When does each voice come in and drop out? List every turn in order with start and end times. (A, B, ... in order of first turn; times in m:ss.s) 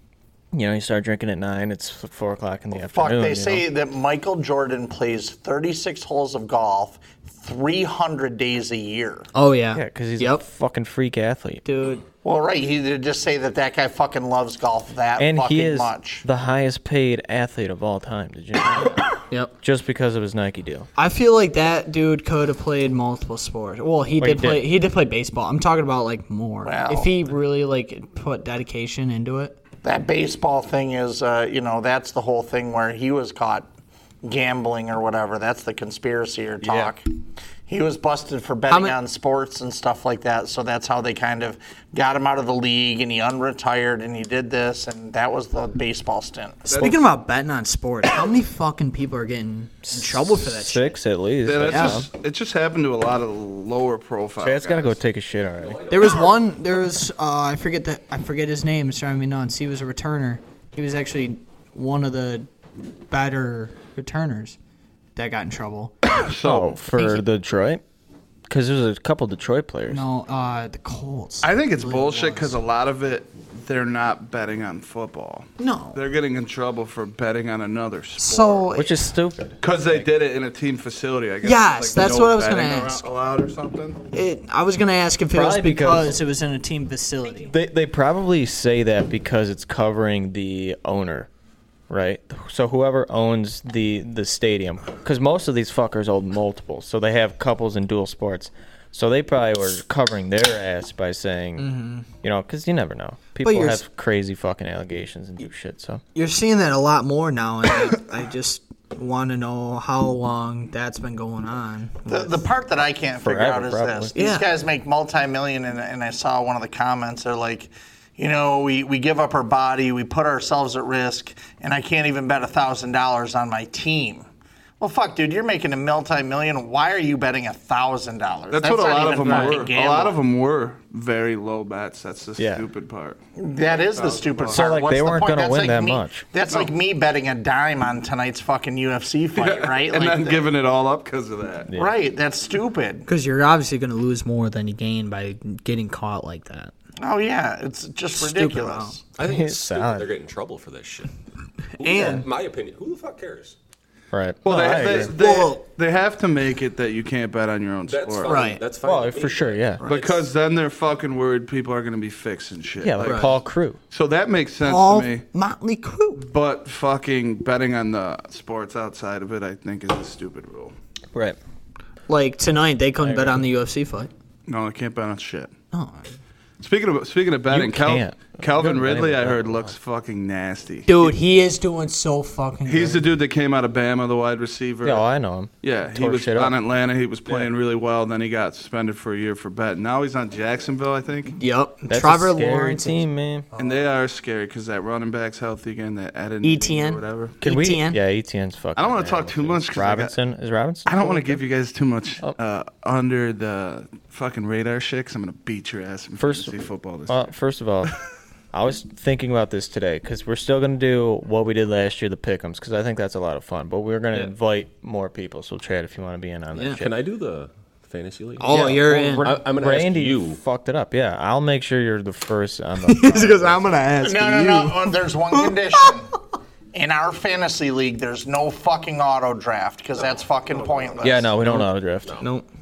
0:00.5-0:03.6 A
0:02.8-0:09.3 B
0:09.3-0:10.4 C
0:09.7-0:11.6 A
0:11.6-0:12.0 C
0:12.2-0:16.2 B
0:15.2-0:19.1 A
0:19.6-0:20.9 A
0:21.0-0:29.6 C
0:24.2-0:24.7 A
0:26.6-0:27.1 B
0:29.8-0:33.7 B
0:34.2-0:37.0 B
0:36.6-0:36.9 A
0:37.7-0:46.8 B
0:38.7-0:39.0 C
0:46.7-0:47.0 D
0:46.7-0:51.0 C
0:49.8-0:52.1 A
0:51.4-0:55.0 D
0:51.6-0:52.0 C
0:54.4-0:56.1 A
0:55.6-0:56.4 E
0:55.9-1:02.5 C
1:03.1-1:04.6 C
1:05.2-1:06.0 C
1:06.1-1:06.8 D
1:06.4-1:07.8 A
1:07.0-1:07.2 C
1:08.5-1:10.0 A
1:09.9-1:12.6 C
1:11.4-1:18.7 D
1:15.6-1:16.0 C
1:18.2-1:19.0 C
1:18.7-1:19.7 A
1:19.6-1:24.0 D
1:21.4-1:23.1 C
1:24.1-1:27.5 C
1:25.3-1:26.2 A
1:27.5-1:31.3 A
1:31.9-1:46.0 A
1:41.6-1:42.0 C
1:43.4-1:43.8 C
1:46.1-1:52.4 C
1:52.1-2:04.2 B
1:53.2-1:54.1 A
1:54.1-1:54.5 C
2:04.8-2:10.2 B
2:08.5-2:13.2 D
2:12.4-2:12.6 A
2:13.4-2:20.5 B
2:13.9-2:14.7 D
2:14.5-2:16.2 A
2:19.3-2:21.7 D
2:21.8-2:23.1 B
2:23.0-2:26.7 C
2:27.0-2:29.0 B
2:28.2-2:29.0 C
2:29.2-2:31.1 E
2:29.2-2:30.1 A
2:31.8-2:33.6 E
2:31.8-2:32.2 C
2:34.1-2:35.1 A
2:34.4-2:38.5 D
2:34.8-2:35.6 C
2:37.9-2:40.2 E
2:38.2-2:38.6 C
2:38.8-2:39.8 A
2:39.8-2:43.3 D
2:42.8-2:43.8 A
2:43.0-2:43.3 C
2:43.9-2:45.2 D
2:44.6-2:46.2 C
2:46.2-2:50.7 D
2:51.1-2:51.4 A
2:52.1-2:54.1 C
2:53.0-2:53.4 A
2:54.5-2:55.5 D
2:55.7-2:56.1 C
2:56.6-3:01.1 D
2:57.5-2:59.7 A
3:00.8-3:03.1 C
3:02.6-3:05.0 D
3:04.8-3:06.5 A
3:05.6-3:11.4 D
3:11.4-3:13.0 C
3:11.9-3:13.5 A
3:13.5-3:13.8 C
3:13.6-3:17.4 D
3:16.4-3:18.0 C
3:17.4-3:21.4 A
3:18.8-3:20.1 D
3:20.8-3:27.2 D
3:26.2-3:26.5 A
3:27.1-3:27.9 A
3:28.5-3:36.9 A
3:36.6-3:36.8 C
3:36.8-3:40.4 E
3:38.4-3:39.3 C
3:38.5-3:43.6 A
3:42.8-3:45.9 C
3:44.0-3:46.1 B
3:46.7-3:51.3 B
3:50.7-3:51.1 E
3:51.0-3:52.2 A
3:52.2-3:52.4 C